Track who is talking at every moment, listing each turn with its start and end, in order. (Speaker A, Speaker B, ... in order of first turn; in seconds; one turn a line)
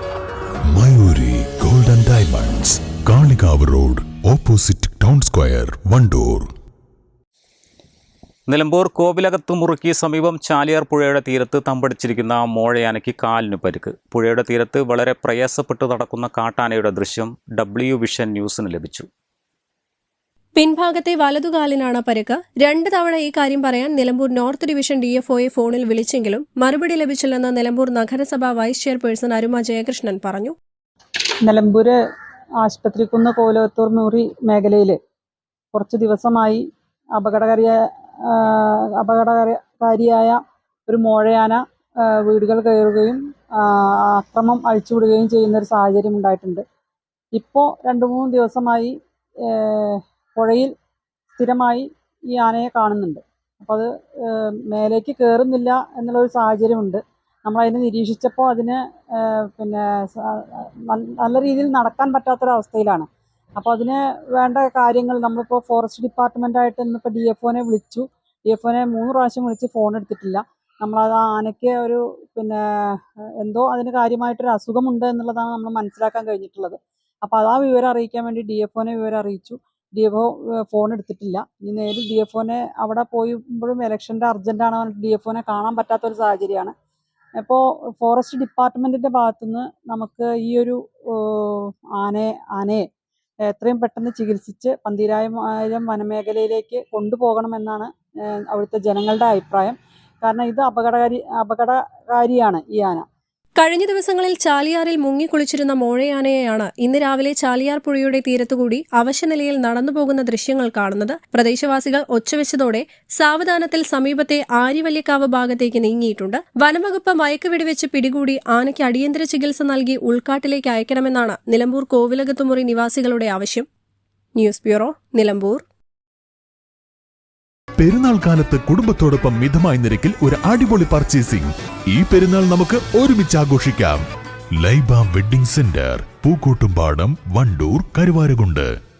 Speaker A: 0.7-6.5
Speaker B: 8.5-19.1
Speaker C: 20.6-30.6
Speaker D: 31.4-32.0
Speaker D: 32.6-35.0
Speaker D: 35.7-46.6
Speaker D: 47.3-48.9
Speaker D: 49.5-50.7
Speaker D: 51.3-86.7
Speaker D: 87.4-92.8
Speaker D: 93.5-103.0
Speaker C: 103.6-123.7
Speaker C: 124.3-125.6
Speaker A: 127.8-134.0
Speaker A: 134.6-138.7